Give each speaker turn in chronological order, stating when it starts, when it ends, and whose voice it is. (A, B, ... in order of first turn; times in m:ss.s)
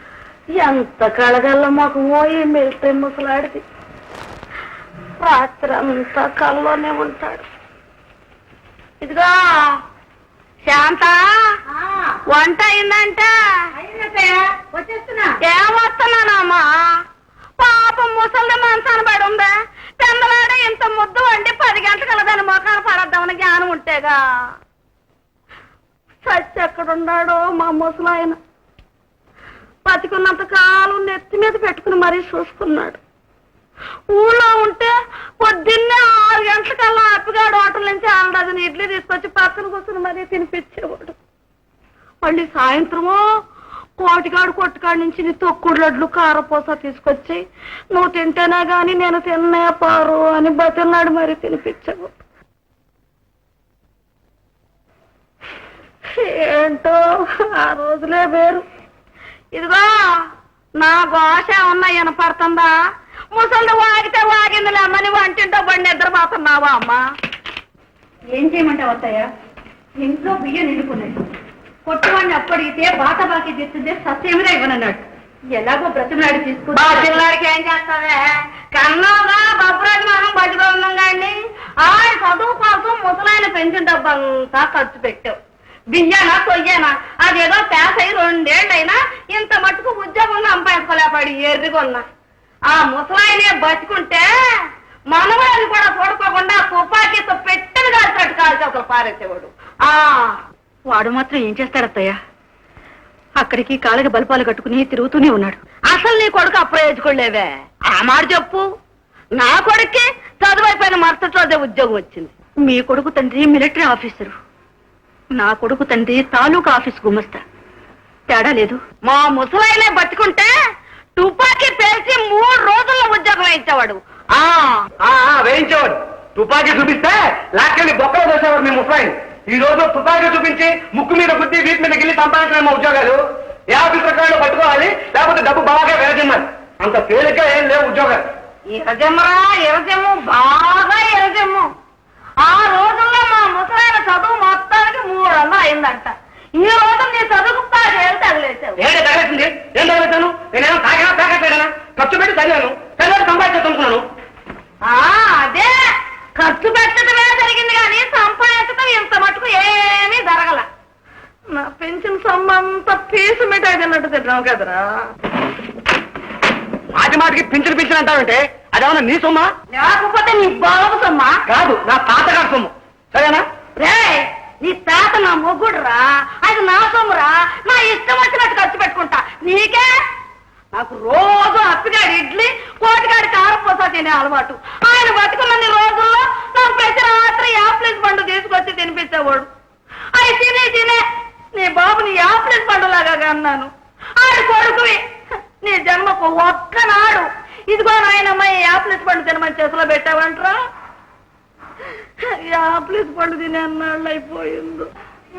0:00.5-0:03.6 A
0:05.2-0:07.4 A
0:09.0-0:09.8 A
0:10.6-0:11.2 A
0:12.3-0:13.7 A
0:15.4-0:16.9 A
0:17.6-0:24.2 A
0:26.2-0:28.4 A
0:29.8-0:33.0 A
0:34.1-0:41.1 A
0:42.2-0:43.2 A
0:44.0-0:47.4 A
0:47.9-0:52.1 A
0:56.2-0:57.0 A
0:57.5-0:58.6 A
0:59.5-0:59.9 A
1:00.8-1:02.7 A
1:03.3-1:07.0 A
1:08.3-1:09.3 B
1:10.0-1:11.2 B
1:11.9-1:17.2 B
1:16.7-1:25.4 A
1:25.9-1:32.1 A
1:32.7-1:34.3 A
1:35.1-1:40.4 A
1:40.9-1:42.2 B
1:43.4-1:45.6 B
1:45.8-1:48.7 A
1:49.3-1:52.3 A
1:52.6-1:54.3 B
1:55.3-1:57.4 B
1:58.3-1:58.8 B
1:59.0-2:00.5 A
2:01.2-2:04.0 A
2:05.0-2:18.2 C
2:18.7-2:21.7 A
2:22.4-2:28.8 A
2:28.8-2:34.0 C
2:34.8-2:35.8 A
2:36.4-2:40.7 A
2:41.5-2:44.9 A
2:46.9-2:49.5 C
2:49.7-2:51.4 A
2:51.5-2:53.4 C
2:53.8-2:59.9 A
3:00.7-3:09.5 A
3:10.1-3:15.0 A
3:15.6-3:20.5 A
3:22.4-3:24.9 A